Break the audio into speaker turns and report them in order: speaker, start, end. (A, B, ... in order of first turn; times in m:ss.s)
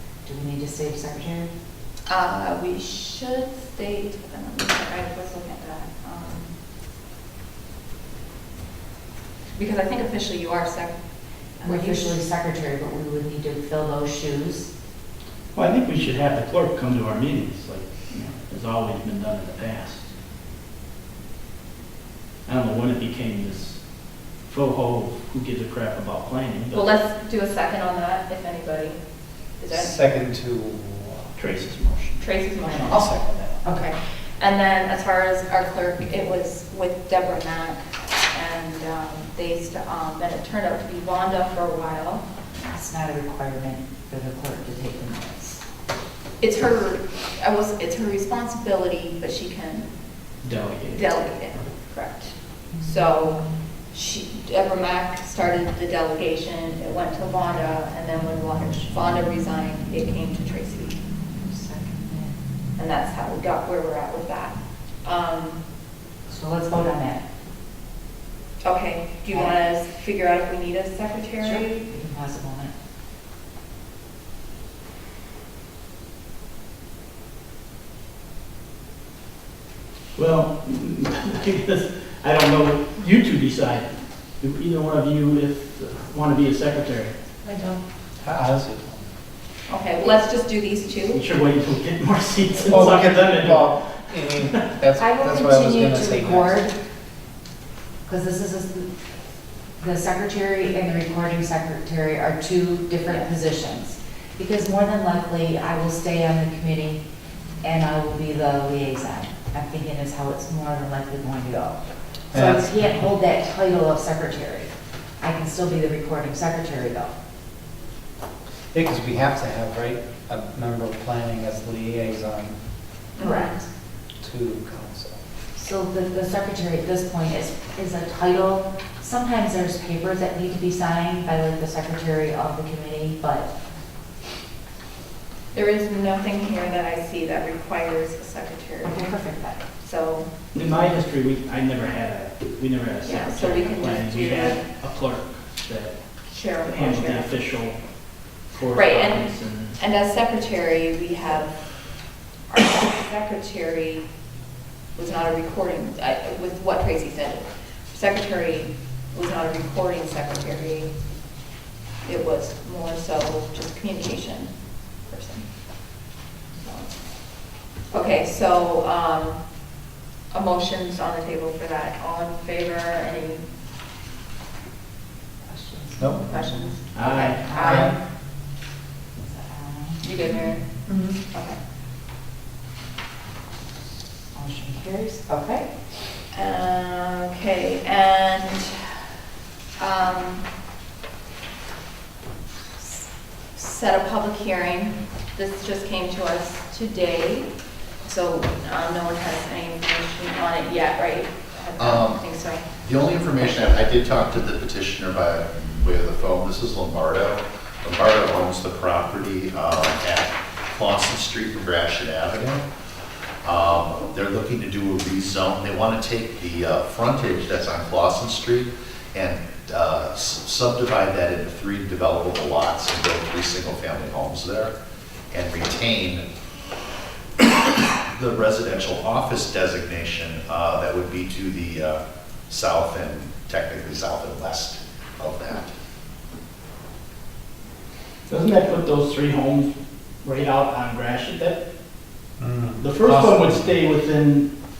0:00.2-0:01.5 A
0:02.1-0:06.5 B
0:09.6-0:10.9 B
0:11.6-0:12.1 B
0:11.6-0:14.7 A
0:15.5-0:20.0 C
0:22.4-0:23.8 C
0:24.4-0:26.8 C
0:26.7-0:29.0 B
0:29.6-0:30.0 B
0:29.7-0:31.3 D
0:31.4-0:32.2 C
0:32.2-0:42.2 B
0:32.8-0:33.6 D
0:42.6-0:45.6 A
0:46.4-0:49.9 B
0:50.4-0:51.0 C
0:50.9-1:01.0 B
1:01.3-1:02.4 A
1:02.8-1:05.6 B
1:06.3-1:07.2 A
1:08.6-1:11.8 B
1:11.4-1:12.7 A
1:20.2-1:27.2 C
1:27.4-1:27.8 A
1:28.2-1:29.1 D
1:29.7-1:31.2 B
1:31.1-1:34.7 C
1:32.7-1:36.6 D
1:35.0-1:36.8 A
1:38.0-1:38.9 A
1:39.8-1:47.0 A
1:47.6-1:51.8 A
1:52.3-1:52.9 D
1:52.3-1:57.1 A
1:58.7-2:02.6 D
2:03.2-2:03.6 B
2:03.2-2:03.6 A
2:04.2-2:05.2 D
2:05.5-2:13.5 A
2:15.5-2:19.1 B
2:18.8-2:19.6 A
2:19.8-2:20.3 B
2:20.5-2:26.0 C
2:23.0-2:24.7 B
2:26.3-2:27.4 B
2:26.6-2:27.8 C
2:28.5-2:29.8 C
2:28.7-2:31.6 B
2:32.5-2:34.0 B
2:34.9-2:40.9 B
2:42.0-2:45.4 B
2:46.6-2:47.0 B
2:47.9-2:49.4 B
2:50.3-2:53.4 B
2:55.5-2:56.5 A
2:56.0-2:56.3 D
2:56.3-2:58.0 B
2:56.9-2:57.6 C
2:57.4-2:58.0 A
2:57.6-2:57.9 D
2:59.2-3:00.1 A
3:00.0-3:01.6 B
3:00.9-3:01.2 D
3:04.3-3:05.7 A
3:06.3-3:09.0 B
3:09.8-3:10.4 B
3:12.8-3:17.5 B
3:18.0-3:22.6 B
3:21.8-3:22.2 E
3:22.8-3:32.6 E
3:33.4-3:44.7 E
3:45.3-3:46.2 E
3:48.1-3:55.7 E
3:58.3-4:01.6 C
4:02.4-4:03.7 D
4:02.8-4:04.5 C